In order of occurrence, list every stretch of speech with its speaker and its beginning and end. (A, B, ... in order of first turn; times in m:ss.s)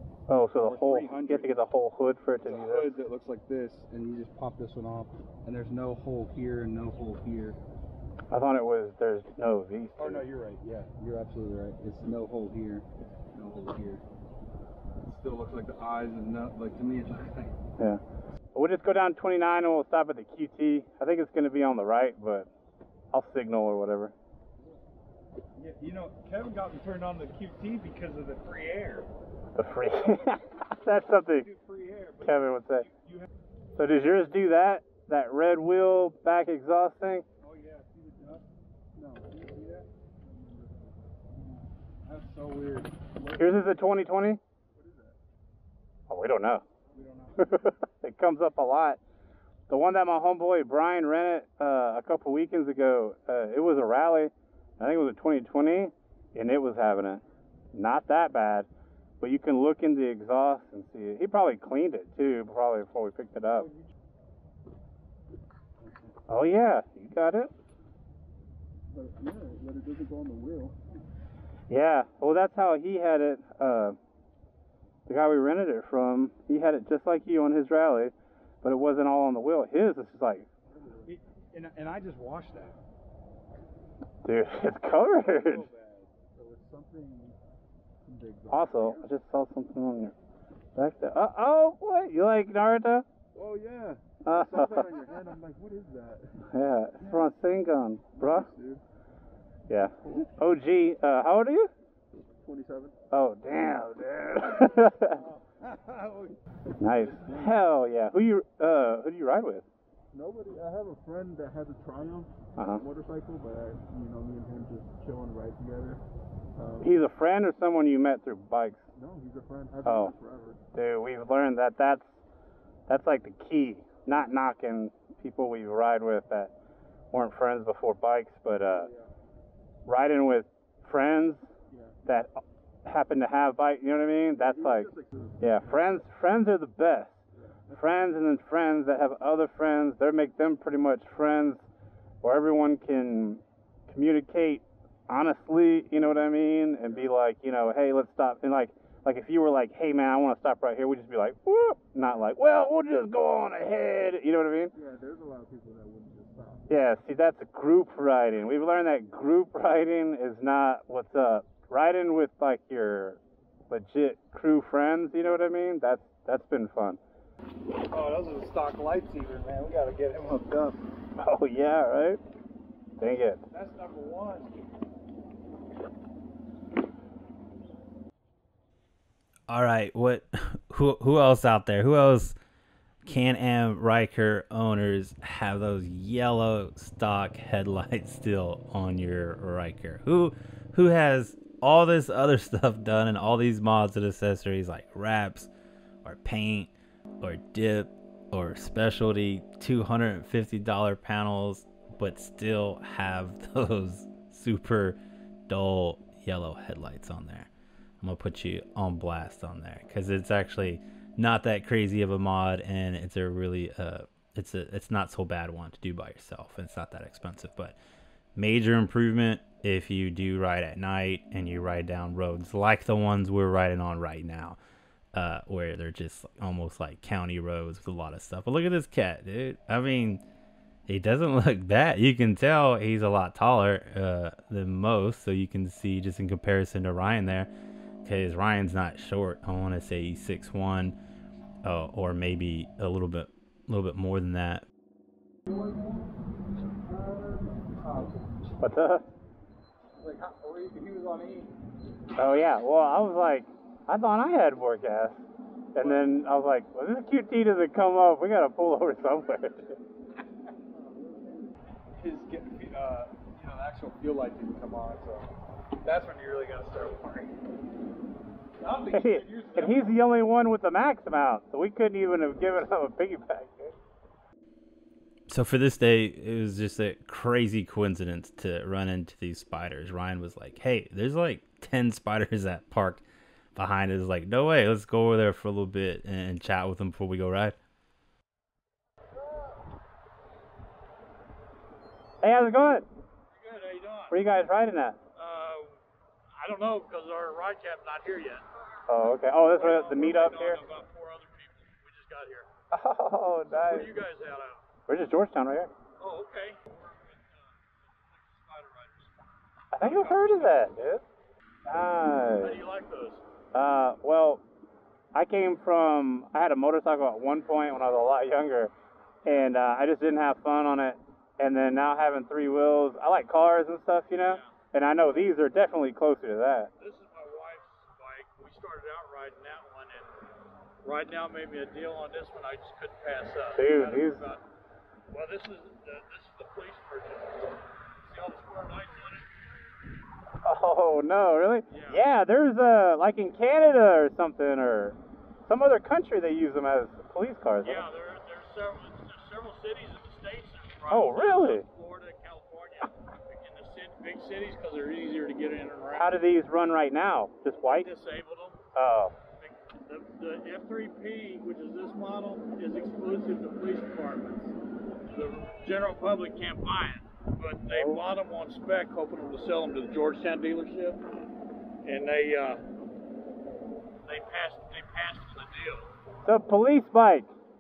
0:00.3-0:03.0 A
0:00.6-0:01.6 B
0:02.4-0:07.6 B
0:08.3-0:10.3 A
0:10.0-0:14.0 B
0:15.0-0:17.6 B
0:18.5-0:22.5 A
0:23.1-0:24.1 A
0:25.5-0:29.1 B
0:29.5-0:31.5 A
0:31.3-0:33.3 B
0:32.2-0:32.9 A
0:33.8-0:37.2 A
0:37.4-0:38.5 B
0:39.0-0:40.9 C
0:39.5-0:39.8 B
0:42.0-0:43.4 B
0:43.2-0:43.7 C
0:43.4-0:44.4 A
0:44.7-0:45.2 C
0:46.1-0:46.6 A
0:46.9-0:47.6 B
0:47.4-0:49.0 A
0:49.7-0:58.7 A
0:59.2-1:03.7 A
1:03.6-1:03.8 B
1:06.3-1:07.5 A
1:08.9-1:10.8 C
1:11.7-1:14.0 A
1:15.1-1:20.5 A
1:20.6-1:21.2 C
1:21.0-1:22.8 B
1:24.2-1:25.6 A
1:25.0-1:26.1 B
1:26.3-1:27.4 C
1:28.0-1:29.0 C
1:28.5-1:30.1 A
1:30.8-1:33.0 A
1:33.3-1:37.3 C
1:34.2-1:34.9 A
1:36.5-1:38.5 A
1:38.2-1:38.8 C
1:39.7-1:41.7 A
1:40.0-1:40.3 C
1:42.4-1:43.0 C
1:43.1-1:45.2 A
1:45.2-1:46.3 C
1:46.8-1:49.6 A
1:46.9-1:47.6 C
1:50.1-1:56.0 C
1:52.6-1:52.8 A
1:56.6-1:56.9 C
1:56.8-1:58.8 A
1:58.9-2:00.6 C
1:59.8-2:00.1 A
2:00.7-2:02.2 A
2:02.9-2:06.5 A
2:07.1-2:08.9 A
2:08.7-2:09.1 C
2:09.8-2:11.5 A
2:11.7-2:11.9 C
2:12.0-2:14.9 A
2:14.4-2:16.0 C
2:15.4-2:17.2 A
2:17.3-2:17.9 C
2:17.7-2:21.7 A
2:22.2-2:34.7 A
2:34.7-2:36.7 C
2:36.7-2:43.2 A
2:43.7-2:47.0 A
2:47.9-2:50.8 B
2:51.2-2:52.2 A
2:53.0-2:53.4 A
2:53.5-2:54.6 B
2:59.5-3:02.4 D
3:03.0-3:15.5 D
3:16.0-3:27.5 D
3:28.0-3:37.8 D
3:38.3-3:44.6 D
3:45.1-3:50.2 D
3:50.9-3:57.5 D
3:58.0-4:01.0 D
4:01.6-4:04.6 D
4:07.2-4:08.2 B
4:08.6-4:09.0 A
4:10.0-4:11.5 B
4:12.2-4:15.2 A
4:15.7-4:19.8 A
4:15.8-4:16.1 B
4:20.8-4:21.2 B
4:21.9-4:27.4 B
4:28.6-4:30.0 B
4:28.9-4:33.7 A
4:35.3-4:43.0 D
4:43.5-4:47.6 D
4:52.2-4:52.9 A
4:53.3-4:54.2 E
4:54.1-4:55.0 A
4:55.2-4:55.8 E
4:56.4-5:02.5 E
4:58.9-5:00.6 A
5:02.7-5:03.9 A
5:03.5-5:04.6 E
5:04.9-5:05.7 A
5:06.0-5:09.2 E
5:09.7-5:11.0 A
5:09.8-5:10.7 E
5:11.6-5:12.6 A
5:12.4-5:13.2 E
5:13.5-5:14.4 A
5:15.1-5:18.7 A
5:19.2-5:26.7 A
5:24.2-5:24.6 E
5:26.8-5:30.1 E
5:30.8-5:34.4 E
5:33.6-5:34.2 A
5:35.1-5:39.3 E
5:40.4-5:47.8 A
5:41.7-5:42.0 E
5:47.6-5:56.2 E
5:50.9-5:51.6 A
5:55.9-5:57.9 A
5:57.6-5:58.6 E
5:58.7-5:59.2 A
5:59.4-6:04.5 E
6:05.1-6:11.0 E
6:07.7-6:08.0 A
6:11.8-6:12.6 E
6:14.0-6:15.9 E
6:16.2-6:17.3 A